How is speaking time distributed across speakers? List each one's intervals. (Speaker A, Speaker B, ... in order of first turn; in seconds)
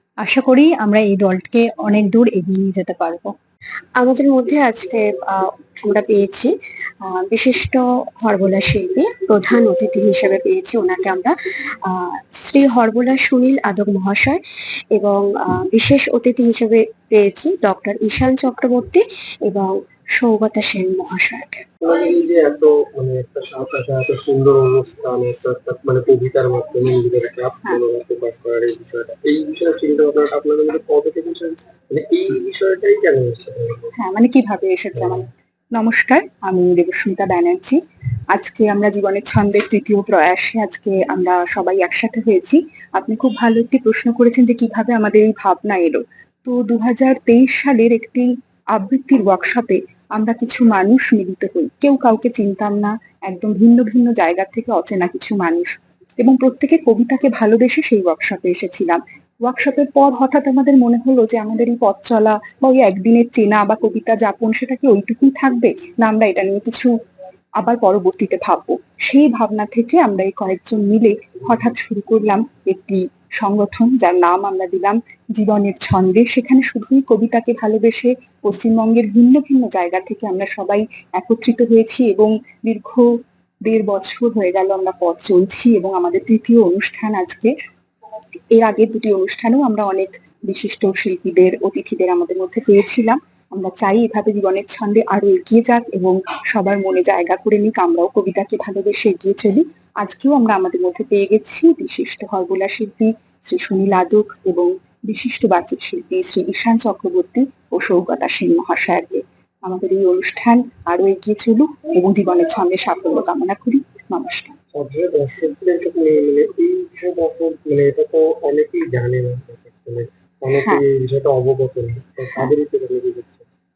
Speaker A: 0.2-3.3
Speaker B: 4.0-6.5, 7.1-11.4, 11.9-14.4, 14.9-21.6
Speaker C: 21.8-33.9, 114.7-123.5
Speaker D: 34.0-37.8, 38.3-66.9, 67.6-83.1, 83.6-87.5, 88.5-114.5, 120.5-120.8